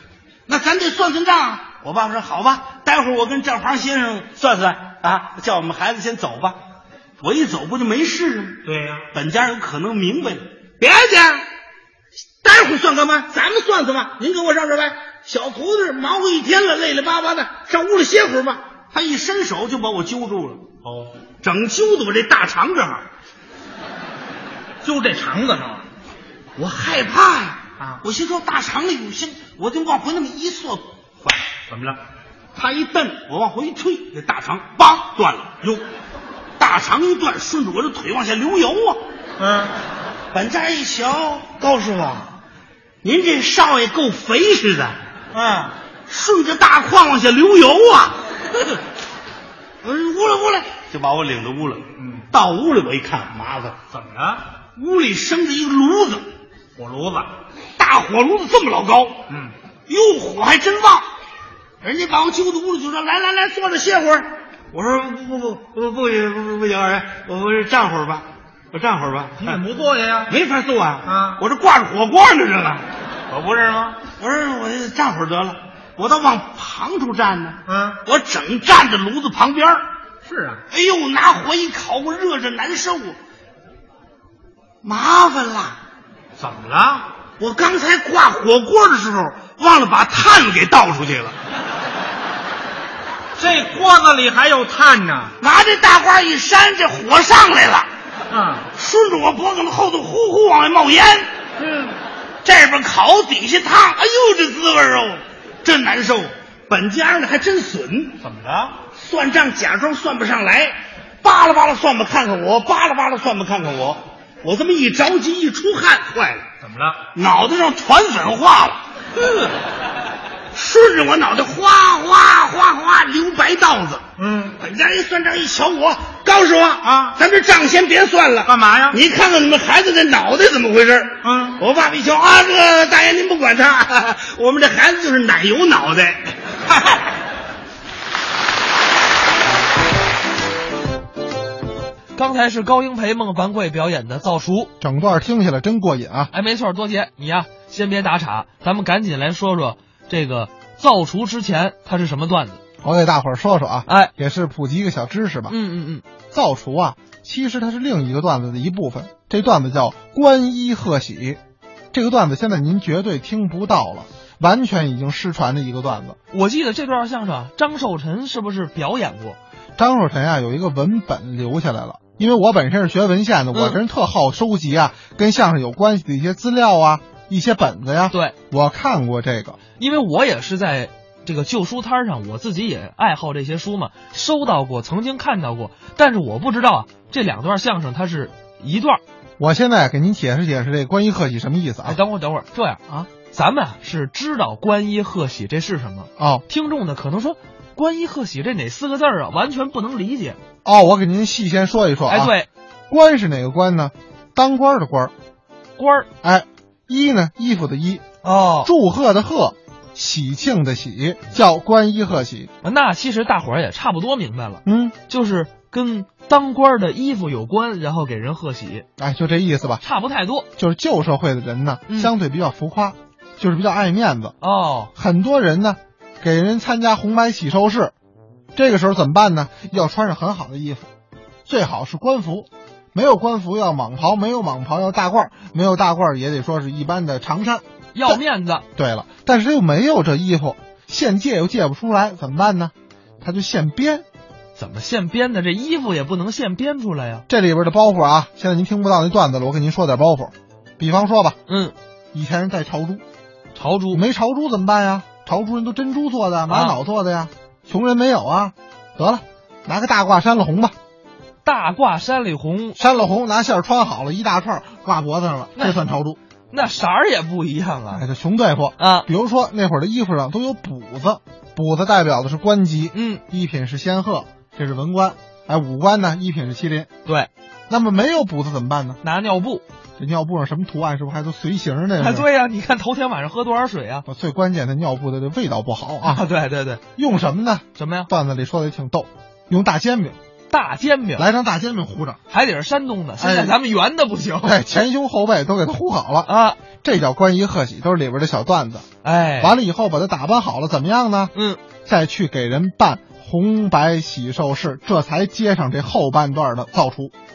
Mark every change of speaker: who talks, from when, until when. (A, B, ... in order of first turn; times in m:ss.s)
0:00.5-0:06.6 A
0:07.2-0:08.6 A
0:08.6-0:09.1 B
0:09.1-0:11.4 A
0:12.4-0:20.7 A
0:20.8-0:21.2 B
0:21.4-0:23.0 A
0:24.8-0:25.8 B
0:26.6-0:31.5 A
0:31.7-0:32.0 B
0:32.5-0:35.5 A
0:36.6-0:39.1 A
0:39.4-0:39.8 B
0:40.3-0:42.4 A
0:43.0-0:45.0 A
0:45.3-0:45.8 B
0:46.1-0:48.2 A
0:49.8-0:53.8 A
0:52.0-0:52.3 B
0:53.9-0:54.5 B
0:54.7-0:56.2 A
0:56.8-0:57.4 B
0:57.8-0:59.2 A
0:59.3-0:59.5 B
0:59.9-1:01.1 A
1:01.8-1:09.6 A
1:09.4-1:10.4 B
1:10.3-1:12.8 A
1:11.0-1:11.4 B
1:13.3-1:14.0 B
1:14.1-1:19.9 A
1:17.7-1:18.0 B
1:20.2-1:20.6 B
1:20.7-1:23.2 A
1:24.8-1:25.8 A
1:26.4-1:27.1 B
1:27.4-1:31.3 A
1:33.4-1:35.4 B
1:35.4-1:37.9 A
1:38.3-1:38.7 B
1:38.7-1:41.3 A
1:41.6-1:41.9 B
1:42.4-1:48.2 A
1:48.2-1:48.8 B
1:48.9-1:56.5 A
1:56.6-1:57.1 B
1:57.1-1:58.8 A
1:59.2-1:59.5 B
2:00.5-2:04.0 A
2:04.2-2:04.6 B
2:04.6-2:17.0 A
2:06.8-2:07.2 B
2:08.4-2:09.0 B
2:11.2-2:11.6 B
2:22.1-2:24.7 C
2:24.8-2:26.3 D
2:26.3-2:32.6 C
2:32.8-2:35.6 D
2:33.9-2:34.1 C
2:35.5-2:36.0 C
2:36.3-2:41.4 D
2:41.9-2:46.2 D
2:46.3-2:49.4 C
2:49.8-2:59.6 D
2:53.5-2:53.8 C
2:59.8-3:09.0 C
3:09.4-3:12.0 D
3:11.8-3:12.8 C
3:13.3-3:20.4 C
3:16.2-3:16.4 D
3:20.6-3:22.3 D
3:22.1-3:22.5 C
3:22.9-3:25.1 D
3:25.8-3:26.1 C
3:26.2-3:28.0 D
3:28.2-3:28.7 C
3:28.6-3:32.5 D
3:32.6-3:38.8 C
3:34.6-3:35.0 D
3:39.0-3:39.8 D
3:39.8-3:40.5 C
3:40.6-3:44.4 D
3:44.4-3:44.9 C
3:44.9-3:47.9 D
3:48.5-3:50.9 D
3:51.5-3:58.2 D
3:57.9-3:58.6 C
3:58.7-4:04.0 D
4:04.6-4:07.2 C
4:07.3-4:11.4 D
4:11.5-4:11.7 C
4:12.1-4:13.0 D
4:13.5-4:14.0 C
4:13.9-4:20.7 D
4:16.5-4:16.8 C
4:21.4-4:22.8 C
4:22.8-4:26.2 D
4:25.6-4:25.8 C
4:26.5-4:28.0 C
4:27.9-4:36.9 D
4:28.8-4:29.1 C
4:32.9-4:33.2 C
4:37.7-4:39.0 D
4:39.0-4:39.6 C
4:40.0-4:42.3 D
4:42.0-4:44.0 C
4:44.1-4:46.2 D
4:46.0-4:46.8 C
4:47.0-4:50.2 D
4:47.8-4:48.1 C
4:50.5-4:51.3 C
4:51.2-4:52.2 D
4:52.3-4:54.6 C
4:53.2-4:53.6 D
4:54.4-4:56.3 D
4:56.2-4:56.6 C
4:56.8-4:58.9 D
4:59.0-4:59.6 C
4:59.4-5:01.3 D
5:01.3-5:01.6 C
5:01.8-5:07.1 D